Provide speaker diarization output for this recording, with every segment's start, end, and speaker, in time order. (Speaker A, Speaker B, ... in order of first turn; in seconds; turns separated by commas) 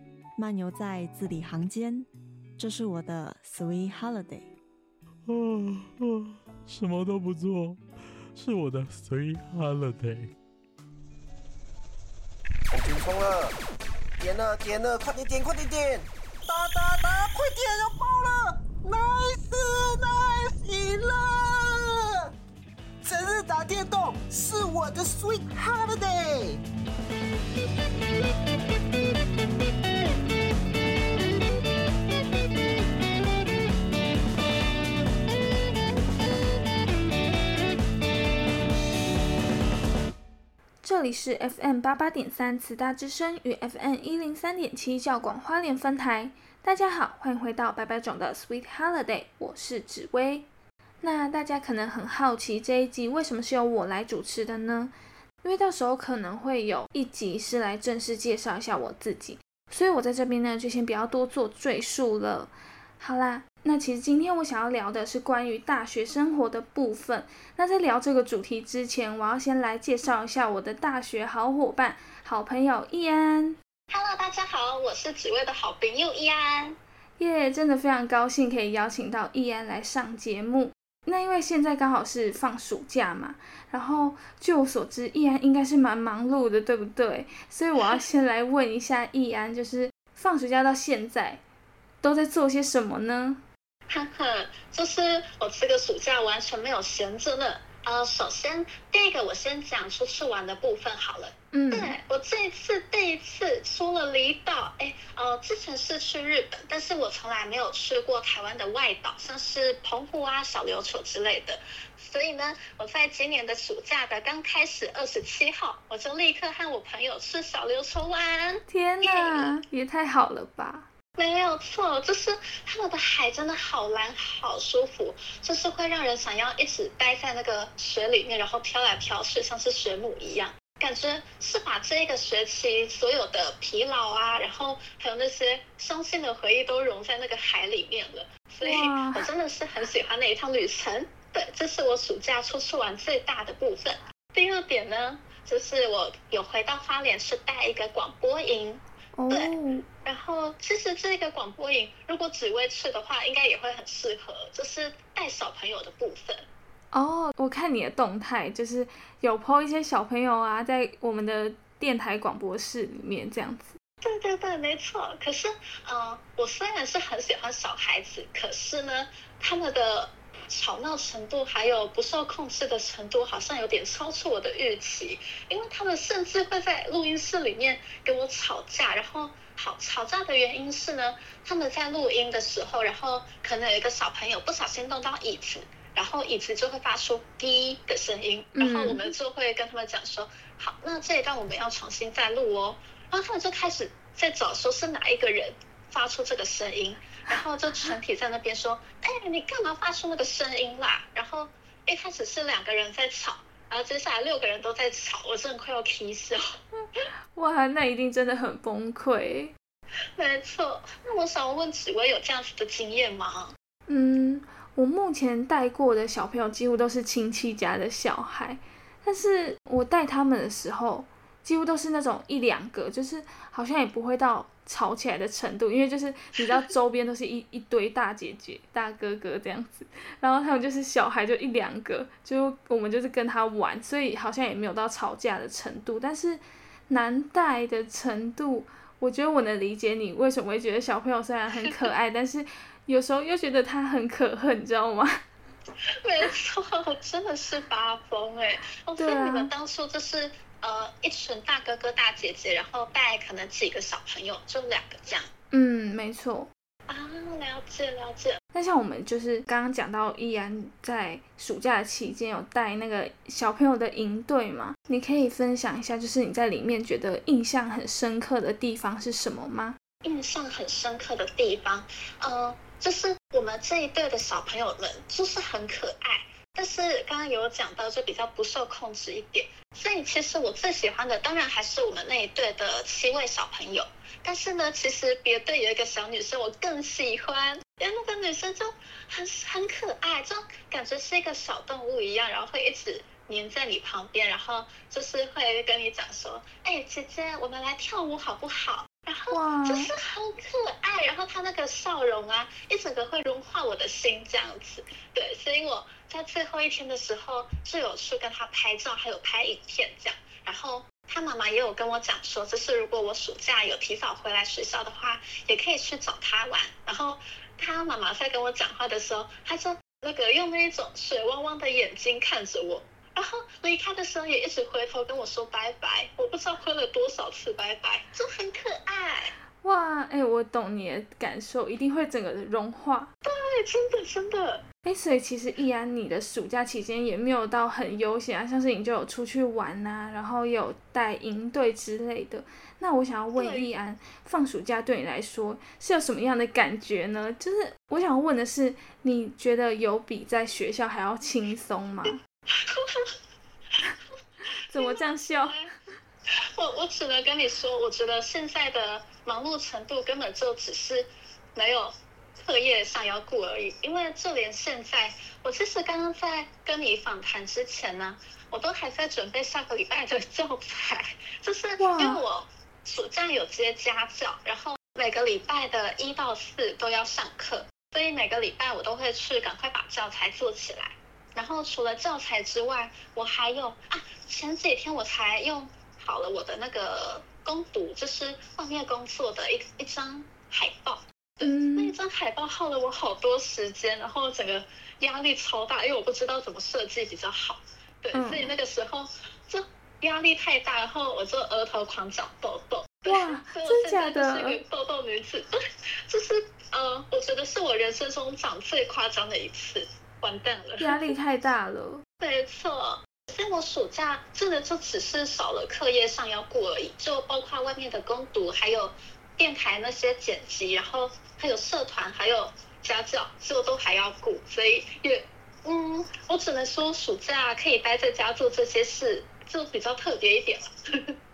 Speaker A: 0.4-4.5, Speaker B: 5.3-10.3, Speaker C: 12.7-13.6, Speaker C: 14.2-22.3, Speaker C: 23.0-26.6, Speaker D: 40.8-50.5, Speaker D: 51.0-54.9, Speaker D: 55.4-73.6, Speaker E: 73.9-76.8, Speaker D: 77.2-91.4, Speaker D: 92.0-93.4, Speaker E: 93.9-119.5, Speaker D: 101.5-102.0, Speaker D: 118.7-120.9, Speaker E: 121.2-156.5, Speaker D: 138.6-139.3, Speaker D: 149.2-149.8, Speaker D: 156.9-163.8, Speaker E: 164.0-206.6, Speaker D: 188.6-189.1, Speaker D: 207.3-209.5, Speaker E: 210.2-213.6, Speaker D: 213.9-245.2, Speaker E: 246.0-255.3, Speaker D: 249.0-249.5, Speaker D: 255.5-256.5, Speaker E: 256.9-258.4, Speaker D: 258.5-269.8, Speaker E: 270.0-329.4, Speaker D: 299.3-299.9, Speaker D: 329.6-333.1, Speaker E: 333.2-334.6, Speaker D: 334.9-352.2, Speaker E: 343.4-343.7, Speaker E: 352.5-353.1, Speaker D: 354.6-355.6, Speaker E: 354.7-355.7, Speaker E: 356.4-405.6, Speaker D: 371.8-372.2, Speaker D: 391.4-391.9, Speaker D: 398.1-398.5, Speaker D: 403.1-404.6, Speaker E: 406.1-411.0, Speaker D: 410.8-412.0, Speaker E: 412.2-431.1